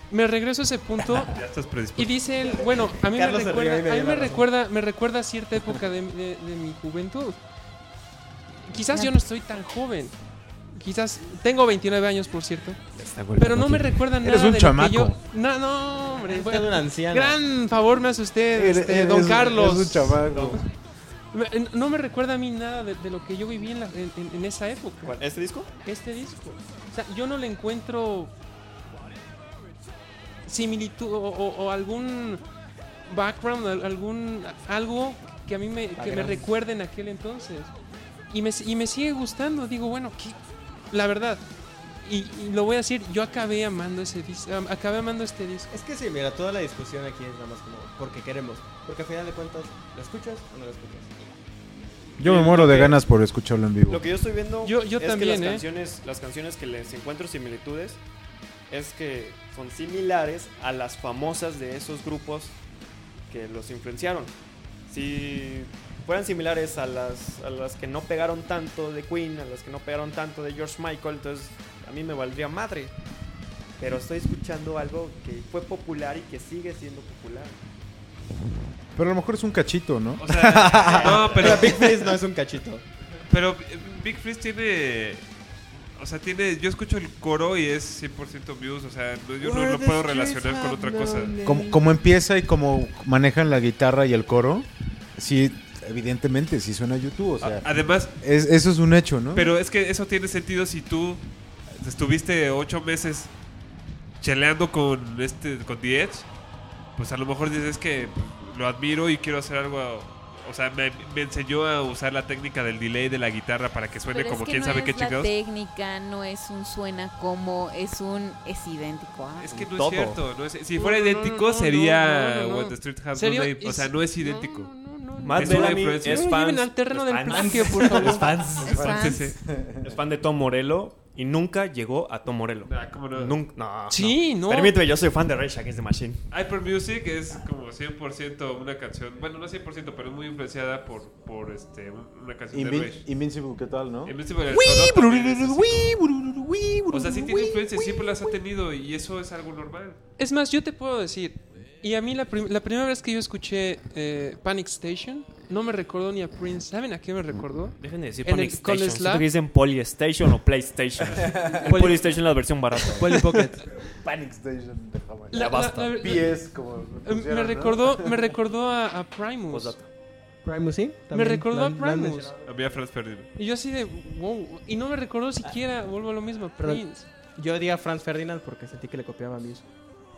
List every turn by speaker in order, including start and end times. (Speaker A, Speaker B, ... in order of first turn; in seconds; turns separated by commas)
Speaker A: 0.1-1.4, Speaker B: 1.3-2.2, Speaker A: 1.9-7.4, Speaker C: 2.9-4.5, Speaker A: 8.6-10.2, Speaker A: 10.7-12.8, Speaker D: 13.0-15.2, Speaker A: 13.4-20.4, Speaker C: 16.3-17.4, Speaker D: 18.5-20.6, Speaker E: 20.2-20.6, Speaker A: 21.3-25.2, Speaker E: 25.0-25.7, Speaker A: 25.8-28.3, Speaker A: 30.4-32.4, Speaker A: 33.0-37.7, Speaker C: 36.0-36.4, Speaker A: 38.3-41.4, Speaker A: 42.0-45.7, Speaker C: 45.7-51.4, Speaker D: 52.2-54.0, Speaker E: 52.2-53.0, Speaker E: 53.9-58.0, Speaker A: 54.6-55.7, Speaker E: 58.7-62.6, Speaker E: 63.3-64.3, Speaker E: 64.9-72.9, Speaker E: 73.8-77.6, Speaker D: 79.0-81.7, Speaker B: 80.2-82.1, Speaker C: 80.7-82.8, Speaker B: 83.3-85.2, Speaker B: 86.0-91.4, Speaker D: 89.5-90.3, Speaker C: 89.5-91.8, Speaker D: 91.4-99.5, Speaker B: 97.4-98.1, Speaker B: 99.3-103.3, Speaker B: 104.2-106.3, Speaker B: 107.0-115.3, Speaker F: 114.1-119.5, Speaker B: 119.4-124.7, Speaker E: 119.5-120.2, Speaker A: 120.7-128.5, Speaker E: 125.2-128.7, Speaker B: 125.3-126.3, Speaker C: 127.3-128.7, Speaker B: 128.1-129.4, Speaker D: 128.3-129.8, Speaker F: 128.7-129.4, Speaker E: 129.8-136.2, Speaker B: 132.7-133.4, Speaker A: 133.9-134.8, Speaker B: 136.3-143.0, Speaker D: 142.5-147.7, Speaker B: 144.0-146.0, Speaker B: 146.9-150.0, Speaker A: 150.2-159.3, Speaker E: 157.8-163.3, Speaker D: 161.2-161.6, Speaker C: 161.6-162.1, Speaker C: 162.9-163.6, Speaker D: 163.8-168.2, Speaker A: 165.3-166.5, Speaker E: 165.3-166.0, Speaker A: 167.0-169.8, Speaker E: 169.5-169.9, Speaker C: 170.4-172.4, Speaker A: 171.1-172.3, Speaker B: 172.4-173.3, Speaker A: 173.3-177.1, Speaker C: 176.6-179.7